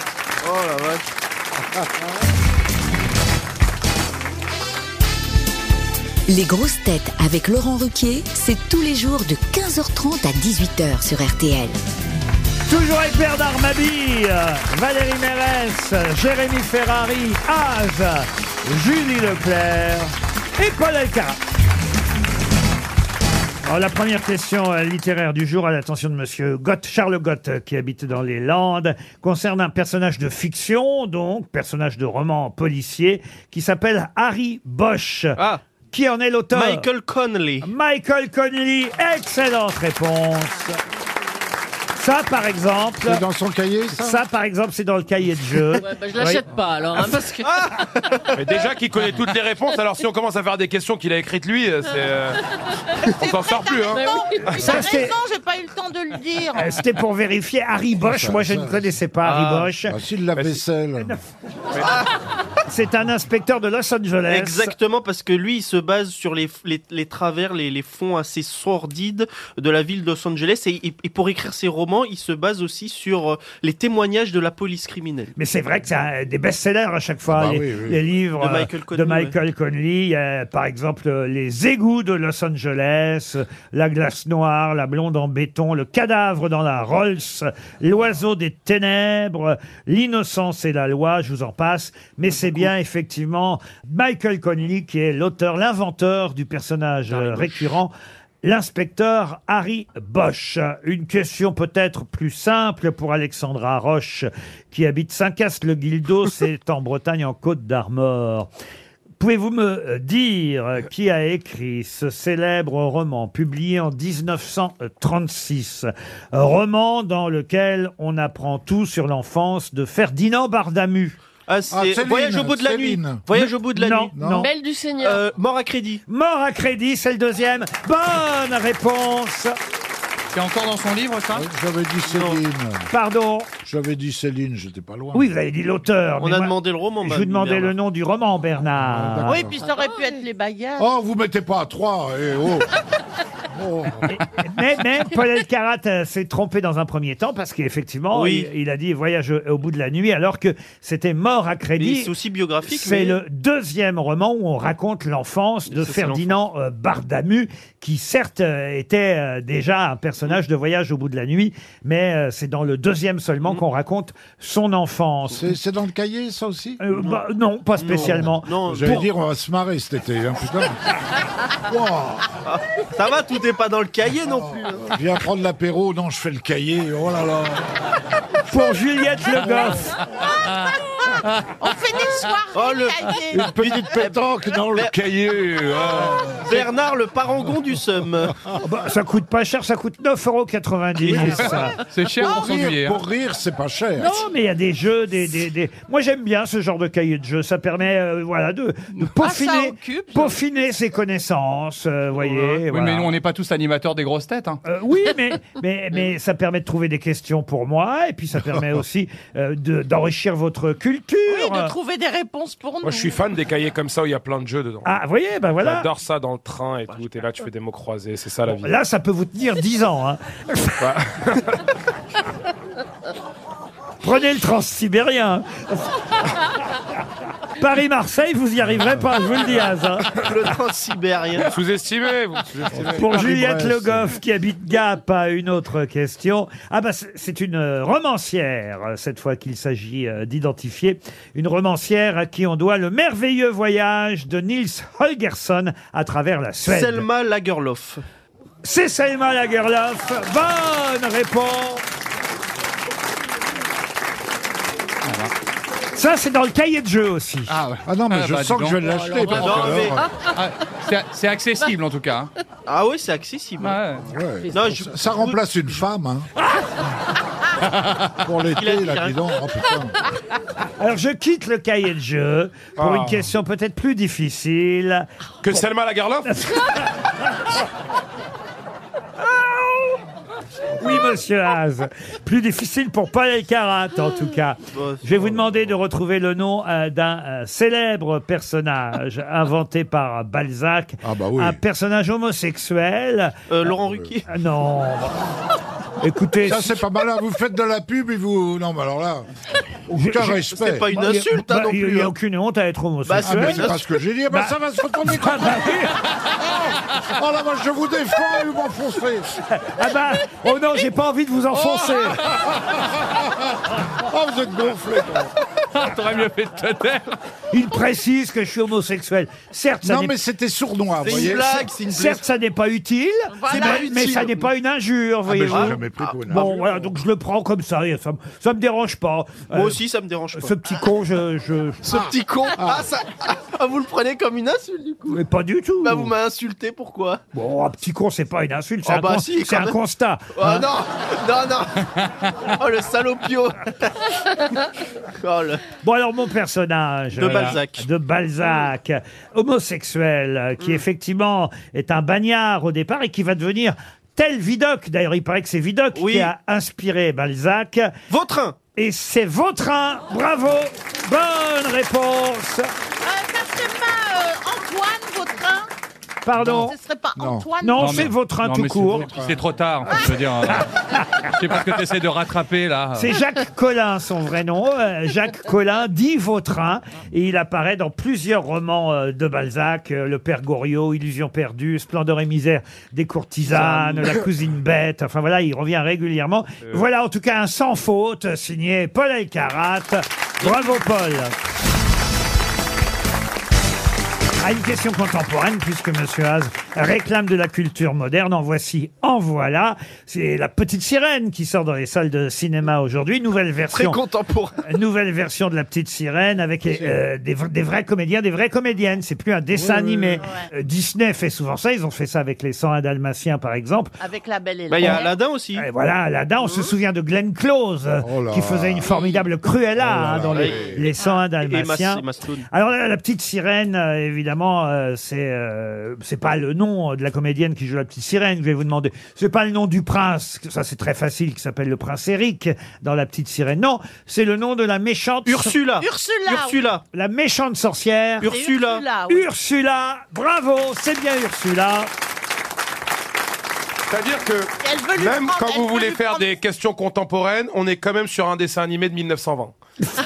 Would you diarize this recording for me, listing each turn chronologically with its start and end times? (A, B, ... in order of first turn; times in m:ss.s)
0:00.4-0:01.0 A
0:06.3-0:11.8 B
0:12.7-0:21.4 C
0:23.6-0:35.4 C
0:35.9-0:36.9 C
0:36.5-0:37.7 A
0:37.6-0:40.8 C
0:42.0-0:43.2 C
0:43.0-0:44.2 D
0:43.9-0:46.4 C
0:45.8-0:47.5 E
0:47.4-0:48.2 A
0:48.3-0:52.4 F
0:53.2-0:54.1 F
0:53.2-0:56.8 G
0:53.8-0:54.5 E
0:54.6-0:55.1 C
0:56.5-1:00.0 C
0:58.0-0:59.0 D
0:59.2-0:59.7 H
0:59.9-1:01.1 D
1:00.4-1:00.6 F
1:01.8-1:02.1 A
1:02.7-1:04.8 C
1:04.3-1:15.3 A
1:15.4-1:48.5 C
1:17.3-1:18.0 D
1:18.4-1:19.4 A
1:37.1-1:37.5 A
1:49.2-2:01.2 C
2:01.5-2:04.2 A
2:01.7-2:03.3 D
2:03.3-2:04.5 C
2:04.1-2:04.5 D
2:04.4-2:05.2 E
2:05.0-2:06.0 A
2:06.1-2:09.6 C
2:10.3-2:11.5 H
2:11.3-2:12.9 D
2:12.0-2:12.4 A
2:12.9-2:13.5 C
2:13.6-2:15.2 D
2:15.1-2:19.4 C
2:16.2-2:17.8 A
2:18.8-2:19.6 D
2:19.2-2:20.9 G
2:20.8-2:22.7 D
2:23.5-2:24.1 D
2:24.1-2:32.1 C
2:28.1-2:28.5 A
2:31.8-2:33.2 A
2:32.6-2:45.5 C
2:35.7-2:36.4 A
2:45.3-2:46.8 D
2:46.8-2:49.0 C
2:47.8-2:49.0 A
2:47.9-2:50.8 D
2:51.6-2:52.3 D
2:52.4-2:54.9 A
2:54.8-2:57.6 D
2:58.5-3:00.0 C
3:01.6-3:03.5 G
3:02.5-3:04.9 A
3:03.3-3:06.6 D
3:06.4-3:08.3 A
3:08.6-3:11.8 C
3:11.0-3:14.2 D
3:11.1-3:13.0 H
3:12.2-3:12.6 G
3:14.0-3:23.1 C
3:19.2-3:20.4 G
3:22.2-3:24.6 H
3:24.6-3:31.7 C
3:31.3-3:33.2 G
3:32.8-3:34.8 F
3:34.8-3:35.8 C
3:35.6-3:38.7 F
3:38.5-3:40.8 C
3:40.8-3:41.6 F
3:44.0-3:45.9 C
3:47.6-3:50.2 C
3:48.8-3:49.1 D
3:50.2-3:51.5 A
3:51.4-3:53.3 F
3:52.7-3:54.1 D
3:52.9-4:07.0 C
4:06.6-4:08.0 A
4:08.6-4:11.8 C
4:15.0-4:15.3 H
4:15.9-4:17.6 C
4:17.5-4:22.3 H
4:17.8-4:20.1 D
4:18.9-4:19.8 E
4:19.3-4:20.0 A
4:22.7-4:23.8 A
4:23.6-4:24.0 H
4:24.0-4:26.3 D
4:24.5-4:25.4 A
4:28.2-4:30.0 D
4:28.5-4:29.2 A
4:30.8-4:35.1 C
4:32.8-4:33.2 F
4:35.4-4:36.3 F
4:36.3-4:36.9 C
4:40.8-4:53.4 C
4:44.7-4:45.1 A
4:45.2-4:45.8 D
4:51.0-4:51.6 D
4:53.5-4:54.2 A
4:53.6-4:54.1 D
4:54.2-4:55.2 C
4:56.0-4:56.8 C
4:56.4-4:59.3 D
4:59.9-5:03.7 C
4:59.9-5:00.9 D
5:00.4-5:02.1 A
5:03.0-5:03.8 A
5:03.2-5:05.8 D
5:04.3-5:06.0 C
5:07.0-5:09.3 D
5:09.5-5:12.2 C
5:12.2-5:15.3 D
5:15.7-5:17.1 H
5:17.5-5:20.2 C
5:19.8-5:21.7 D
5:21.0-5:22.2 A
5:21.9-5:29.8 C
5:23.4-5:24.5 A
5:25.3-5:26.9 D
5:25.4-5:25.8 A
5:29.5-5:30.5 A
5:30.3-5:31.8 C
5:31.8-5:35.2 A
5:32.6-5:32.8 D
5:35.1-5:36.1 C
5:35.8-5:37.2 A
5:37.3-5:40.6 C
5:38.8-5:39.8 A
5:40.3-5:41.9 A
5:42.6-5:44.6 A
5:45.2-5:45.6 A
5:45.8-5:57.9 C
5:47.2-5:47.8 A
5:55.9-5:56.3 A
5:58.1-5:58.6 A
5:58.7-6:02.7 C
6:03.0-6:05.7 G
6:06.2-6:06.7 C
6:06.4-6:07.5 D
6:06.5-6:08.1 G
6:07.6-6:09.1 C
6:07.8-6:10.7 H
6:08.8-6:09.4 D
6:09.9-6:11.3 C
6:11.3-6:13.1 H
6:12.9-6:31.3 C
6:30.4-6:30.8 A
6:34.4-6:44.0 C
6:43.7-6:44.6 A
6:44.6-6:53.9 C
6:46.6-6:47.0 D
6:49.5-6:50.2 D
6:50.2-6:50.5 G
6:54.0-6:55.2 G
6:54.7-6:55.7 A
6:55.6-7:15.5 C
6:58.0-6:59.0 D
6:59.8-7:00.9 D
7:00.3-7:00.8 A
7:01.4-7:02.5 A
7:15.2-7:16.8 A
7:15.8-7:16.6 G
7:16.9-7:18.3 C
7:18.2-7:18.8 A
7:18.2-7:19.3 G
7:19.1-7:21.9 C
7:23.9-7:29.5 F
7:24.6-7:26.3 G